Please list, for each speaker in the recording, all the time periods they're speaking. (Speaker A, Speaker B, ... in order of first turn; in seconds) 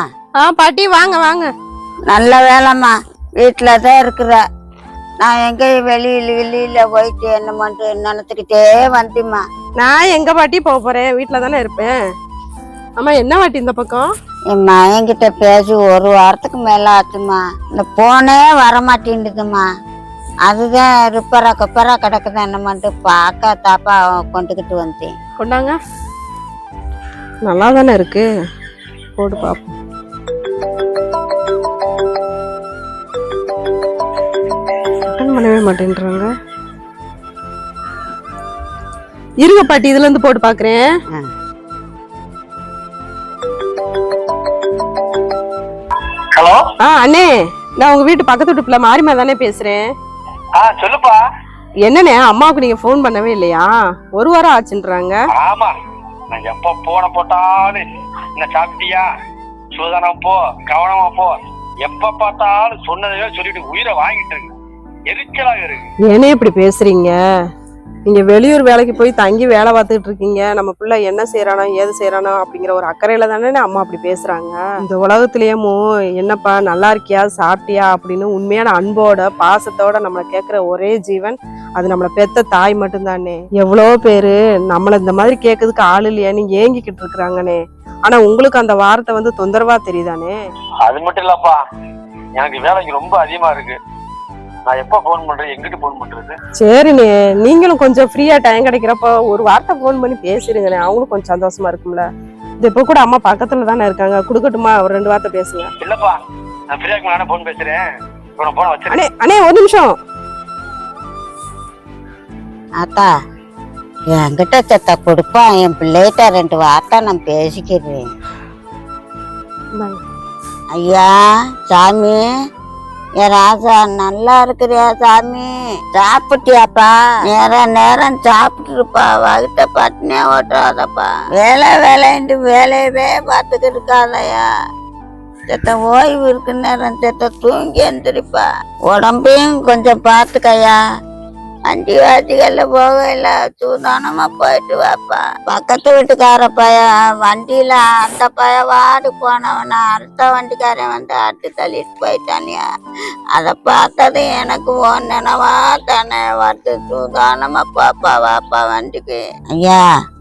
Speaker A: 0.4-1.5, 9.8-11.9, 13.0-14.1, 25.4-25.8, 27.4-28.3, 29.2-29.8, 35.1-36.3, 39.4-40.9, 46.8-49.9, 51.9-55.2, 66.1-67.2, 68.0-90.3, 96.6-102.1, 102.6-105.7, 108.9-109.9
Speaker B: 2.1-4.4, 5.2-9.4, 14.5-19.7, 20.5-25.1, 112.8-113.1, 114.1-118.0, 120.8-122.2, 123.2-134.5, 135.5-140.8, 141.7-152.6, 153.3-159.9
Speaker C: 46.3-46.6, 50.6-51.2, 55.3-55.7, 56.3-59.1, 59.8-64.5, 65.1-65.8, 90.8-91.6, 92.3-93.8, 94.7-96.3, 105.8-106.2, 106.7-107.8, 108.4-109.0